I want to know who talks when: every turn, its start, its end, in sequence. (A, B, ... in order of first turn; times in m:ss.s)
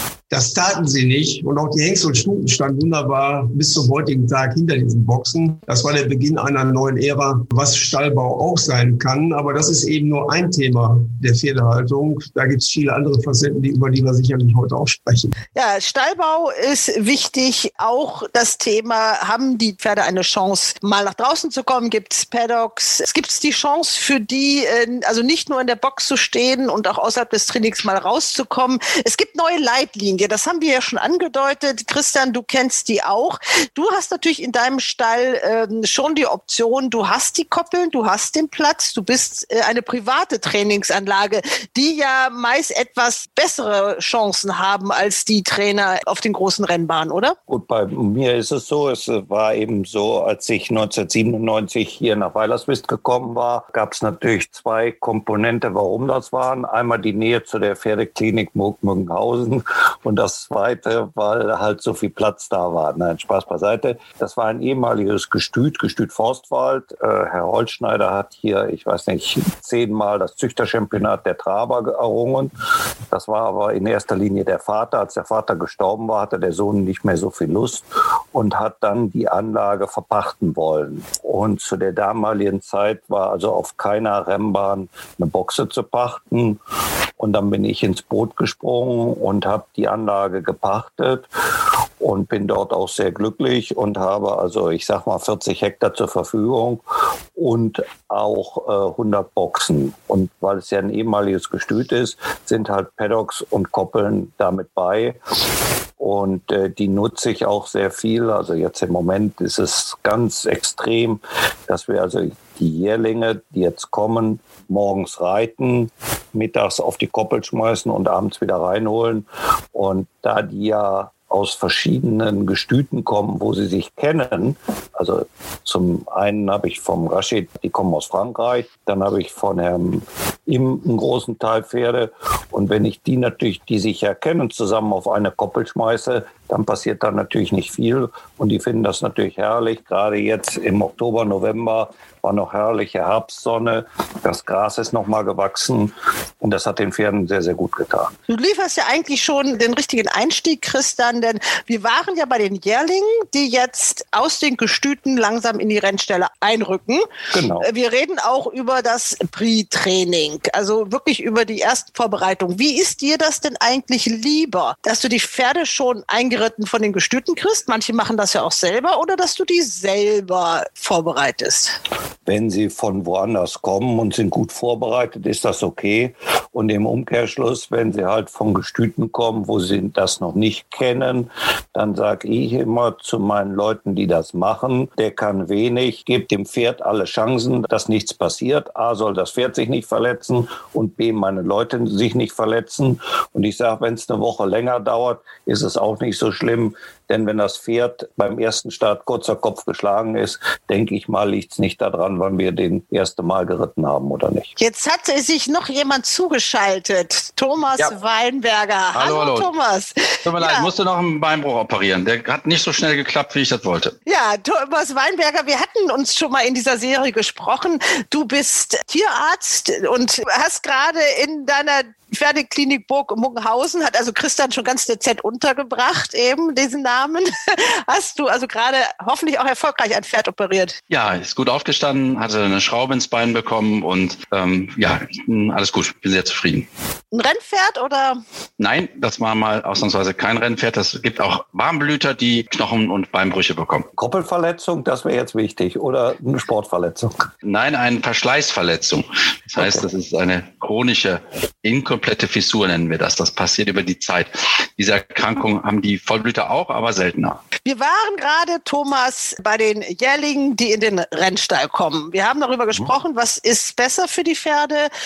0:00.3-0:15.3 A
0:15.5-0:47.4 B
0:47.5-1:12.5 C
1:13.1-1:26.6 C
1:27.2-1:31.3 C
1:32.0-1:36.8 C
1:37.4-1:45.2 C
1:46.0-2:28.1 C
2:28.3-2:37.0 B
2:37.3-2:37.7 C
2:37.6-2:51.8 B
2:52.2-3:24.5 C
3:24.6-3:30.7 B
3:28.9-3:29.5 D
3:30.2-3:33.9 D
3:34.0-3:50.8 B
3:50.9-3:56.7 D
3:57.1-3:58.2 B
3:58.6-4:03.9 D
4:04.0-4:07.3 C
4:07.4-4:17.4 D
4:09.6-4:09.8 C
4:17.6-4:24.9 B